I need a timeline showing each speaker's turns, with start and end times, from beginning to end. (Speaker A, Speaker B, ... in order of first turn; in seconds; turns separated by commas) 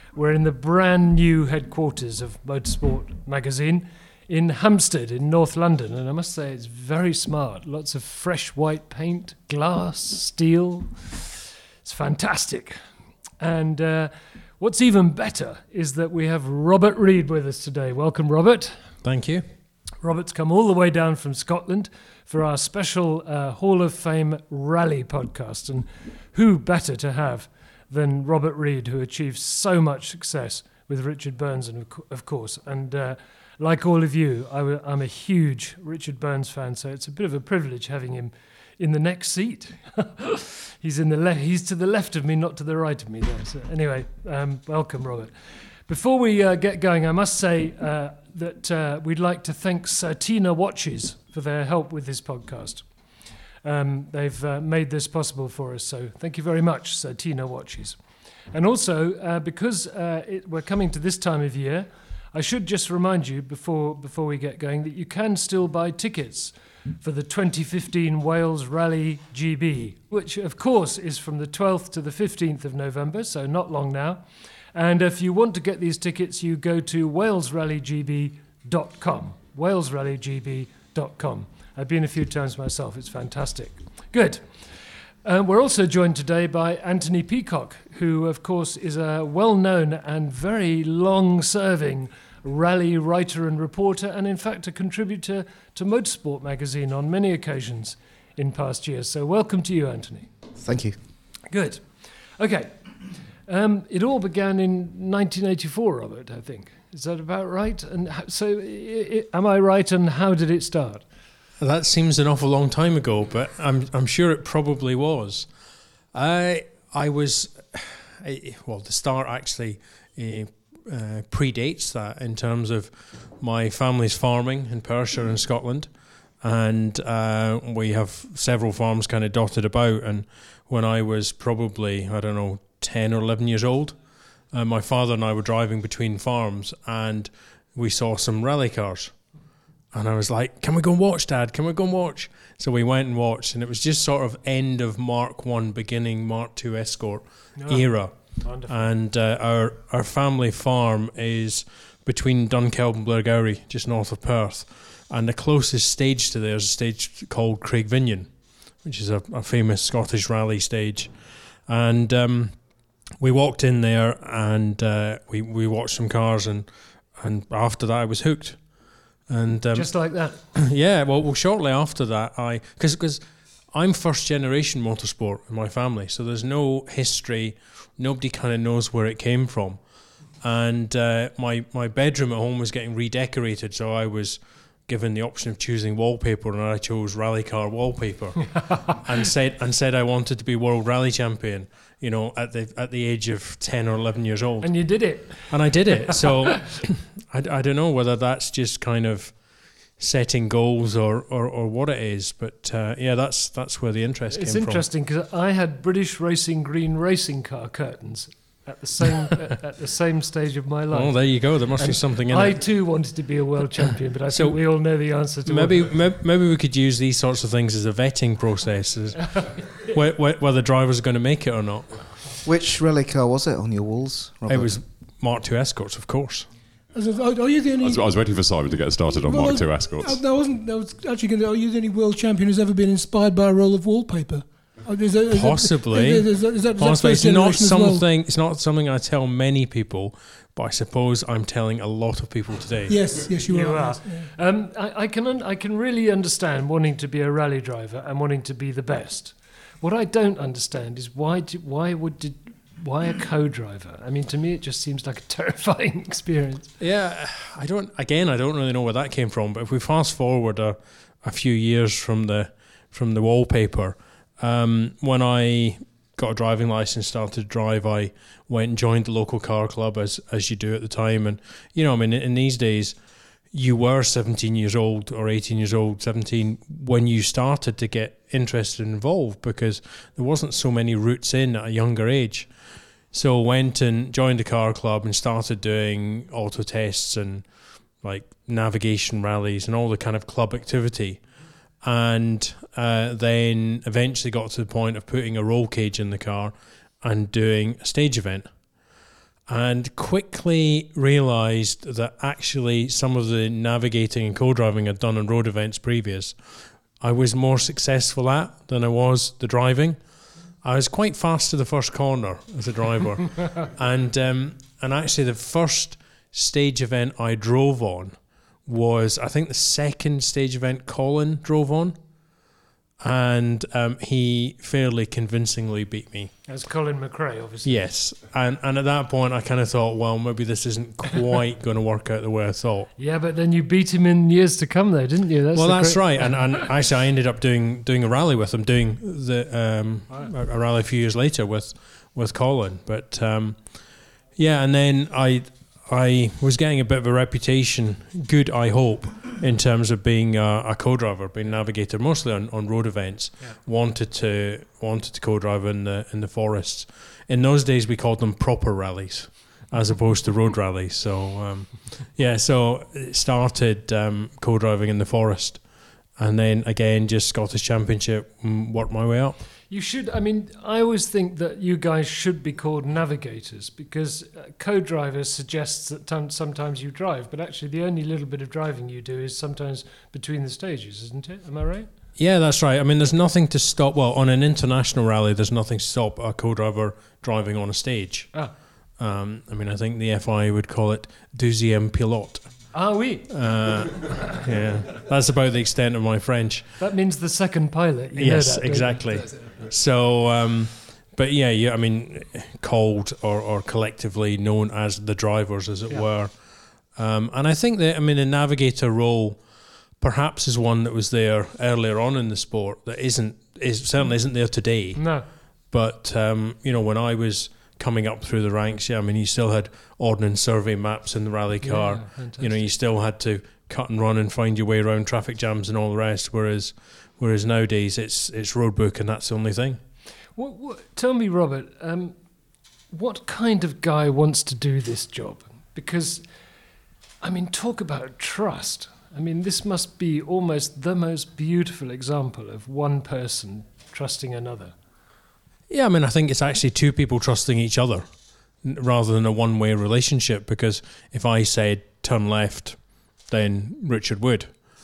Speaker A: 0.1-12.8, Speaker A: 13.4-18.9, Speaker B: 19.0-19.5, Speaker A: 20.0-52.9, Speaker A: 53.6-58.0, Speaker A: 58.5-84.6, Speaker A: 85.2-100.3, Speaker C: 100.6-101.0, Speaker A: 101.5-102.9, Speaker A: 103.5-111.0, Speaker B: 111.6-115.5, Speaker B: 116.1-125.9, Speaker B: 126.4-134.0, Speaker B: 134.5-139.1, Speaker B: 139.9-158.3, Speaker A: 147.6-148.9, Speaker B: 158.8-161.1, Speaker B: 161.7-162.5, Speaker B: 163.2-166.7, Speaker B: 167.2-168.6, Speaker B: 169.3-169.9, Speaker A: 169.7-170.4, Speaker B: 170.5-173.2, Speaker B: 173.7-179.8, Speaker B: 180.4-199.4, Speaker A: 194.6-196.3, Speaker B: 200.0-204.8, Speaker A: 204.3-215.9, Speaker B: 210.9-212.6, Speaker B: 215.5-222.1, Speaker A: 219.4-219.6, Speaker C: 222.4-224.8, Speaker B: 224.5-226.5, Speaker D: 226.9-228.1, Speaker E: 227.8-230.2, Speaker D: 229.3-238.0, Speaker B: 235.3-242.9, Speaker D: 242.9-244.3, Speaker A: 243.4-256.7, Speaker B: 256.8-272.9, Speaker B: 273.5-282.5, Speaker B: 283.1-287.4, Speaker B: 288.0-291.2, Speaker B: 291.8-298.5, Speaker B: 299.5-306.4, Speaker B: 307.0-310.0, Speaker B: 310.6-318.1, Speaker B: 318.7-322.0, Speaker B: 323.0-326.3, Speaker A: 326.5-327.8, Speaker B: 327.6-332.9, Speaker A: 333.0-336.4, Speaker B: 335.6-343.6, Speaker B: 344.4-365.6, Speaker B: 366.2-369.4, Speaker A: 369.7-381.9, Speaker B: 382.2-388.3, Speaker B: 389.0-392.5, Speaker A: 392.7-393.3, Speaker B: 393.3-396.8, Speaker A: 396.8-399.3, Speaker B: 398.2-406.3, Speaker B: 406.9-409.4, Speaker B: 410.0-415.1, Speaker A: 414.9-415.2, Speaker B: 415.7-429.8, Speaker A: 421.6-422.7, Speaker A: 430.4-432.2, Speaker A: 432.9-436.2, Speaker A: 437.2-444.7, Speaker B: 445.7-448.0, Speaker B: 448.6-452.8, Speaker B: 453.3-454.5